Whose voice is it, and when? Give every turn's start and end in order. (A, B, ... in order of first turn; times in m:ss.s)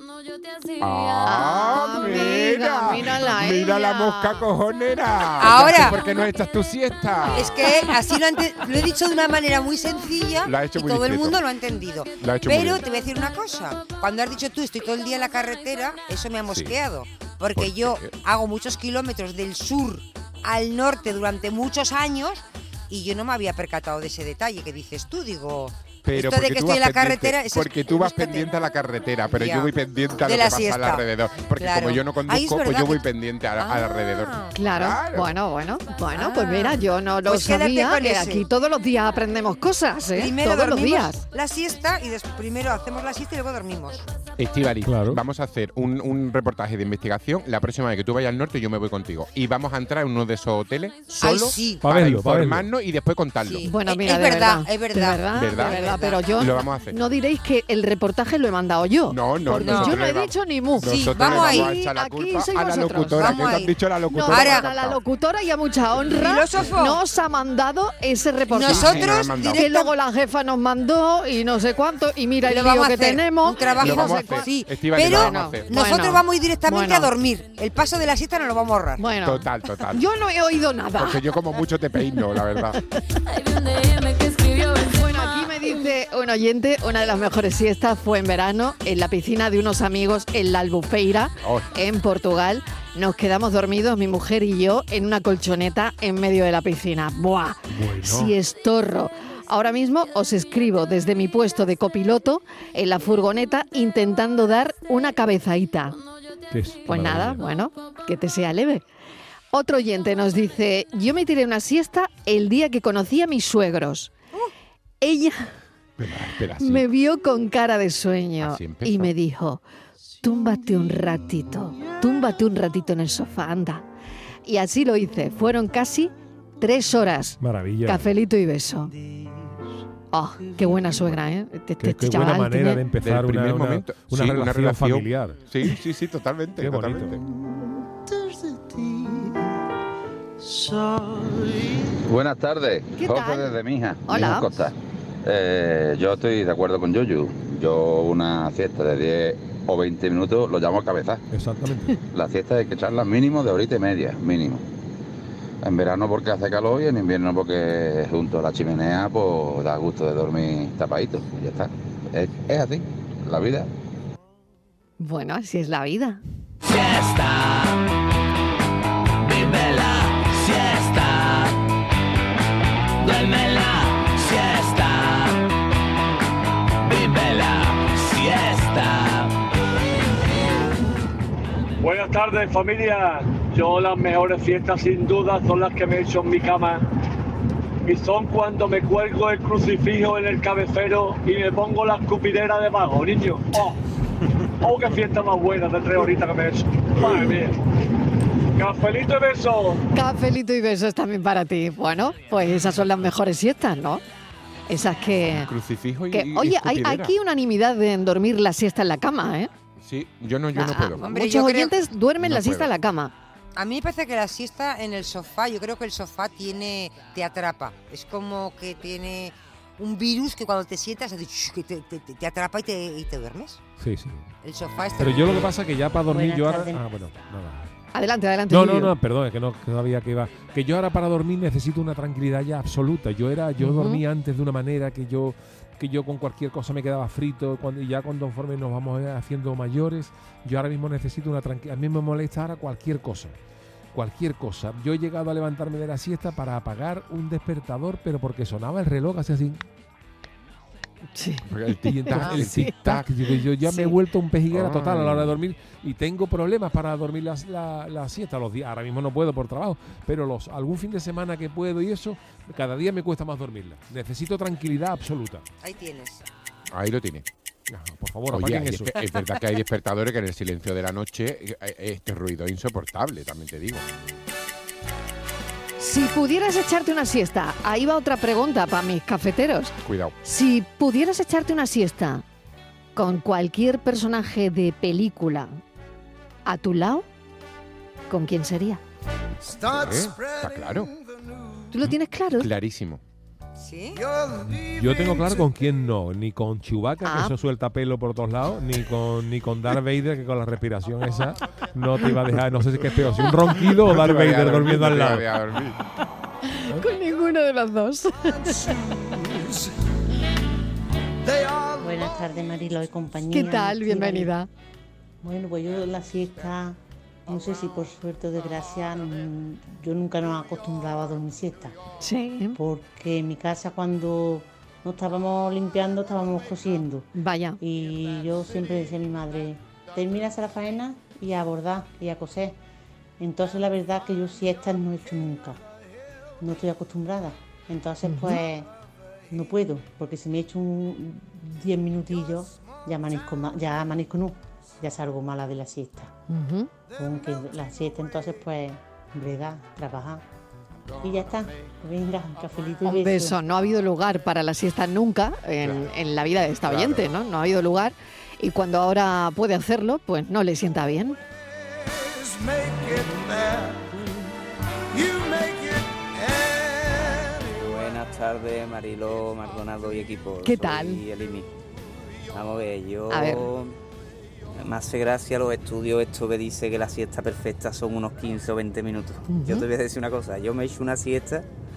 0:00.8-0:07.9 A
0:01.2-0:04.4 B
0:05.4-0:06.0 C
0:07.3-0:28.5 C
0:10.4-0:11.4 A
0:12.2-0:12.8 A
0:16.5-0:16.8 A
0:17.5-0:18.1 A
0:26.0-0:35.3 A
0:29.3-0:31.0 C
0:31.6-0:34.5 C
0:34.5-0:41.2 B
0:36.1-0:38.4 C
0:40.1-0:44.1 C
0:44.4-0:53.7 A
0:44.8-0:45.2 D
0:51.2-0:51.8 C
0:51.8-0:52.7 D
0:53.4-0:56.7 C
0:53.6-1:03.5 B
0:55.3-0:57.0 A
0:59.1-1:05.0 A
0:59.5-1:00.0 C
1:00.8-1:01.7 C
1:03.2-1:04.7 C
1:04.1-1:14.5 B
1:06.0-1:07.0 C
1:08.5-1:09.9 C
1:08.6-1:09.7 A
1:12.4-1:19.0 C
1:13.8-1:15.7 A
1:15.0-1:17.1 B
1:19.0-1:21.2 B
1:19.2-1:20.0 A
1:21.0-1:22.8 A
1:24.8-1:46.0 B
1:31.4-1:31.7 A
1:37.7-1:38.3 D
1:46.5-1:47.4 D
1:46.8-1:48.8 B
1:49.5-1:54.1 B
1:55.0-1:55.5 B
1:56.0-1:56.8 A
1:56.6-1:59.6 B
1:58.4-1:59.1 A
2:00.2-2:03.8 B
2:04.4-2:08.9 B
2:07.4-2:08.0 D
2:10.1-2:12.8 B
2:11.8-2:15.4 D
2:12.9-2:17.2 A
2:16.6-2:17.2 D
2:22.0-2:24.7 E
2:23.0-2:24.5 B
2:25.2-2:31.2 E
2:31.3-2:32.0 D
2:32.1-2:34.6 E
2:35.6-2:43.7 E
2:45.0-2:46.2 B
2:46.7-2:47.7 F
2:49.3-2:51.5 F
2:53.0-2:55.3 F
2:56.9-2:59.3 F
3:01.8-3:06.8 G
3:07.8-3:13.8 G
3:14.6-3:17.6 G
3:18.6-3:19.8 G
3:19.9-3:24.0 B
3:24.7-3:25.5 B
3:25.3-3:27.1 A
3:26.1-3:29.5 B
3:29.8-3:31.0 A
3:30.5-3:33.1 B
3:31.0-3:31.7 C
3:32.2-3:32.7 A
3:33.6-3:43.6 C
3:43.8-3:44.3 D
3:44.4-3:45.5 C
3:45.0-3:47.7 D
3:46.1-3:46.8 H
3:47.9-3:48.9 B
3:48.5-4:03.4 D
3:53.6-3:54.0 B
4:03.9-4:09.6 D
4:11.1-4:12.8 B
4:11.4-4:13.1 A
4:11.8-4:25.4 D
4:13.6-4:13.9 B
4:14.5-4:15.4 A
4:25.6-4:26.2 C
4:26.7-4:27.2 A
4:27.7-4:29.0 D
4:28.3-4:33.8 A
4:35.8-4:42.2 B
4:39.8-4:40.1 A
4:43.0-4:45.6 B
4:46.4-4:47.1 B
4:48.1-4:48.8 B
4:49.5-4:51.0 I
4:49.6-4:50.9 A
4:51.7-4:52.5 B
4:52.4-4:53.0 A
4:53.6-4:54.0 C
4:53.9-4:55.3 I
4:54.6-5:05.3 D
4:57.0-4:57.4 B
5:03.7-5:05.8 A
5:06.5-5:08.6 B
5:11.8-5:14.3 H
5:13.3-5:14.5 B
5:15.2-5:21.7 H
5:22.0-5:22.6 B
5:22.6-5:27.1 H
5:27.2-5:27.6 B
5:27.6-5:32.6 H
5:33.2-5:35.6 H
5:36.4-5:38.7 H
5:38.0-5:38.4 B
5:39.3-5:46.1 H
5:46.3-5:46.7 B
5:47.0-5:50.2 H
5:50.9-5:51.4 A
5:51.0-5:53.4 H
5:52.8-6:01.2 B
5:55.6-5:55.8 A
5:56.6-5:57.1 A
6:02.2-6:03.8 I
6:04.9-6:07.4 I
6:07.5-6:11.5 J
6:10.4-6:11.0 B
6:12.3-6:13.7 J
6:13.1-6:13.4 B
6:14.6-6:21.4 J
6:19.3-6:19.6 B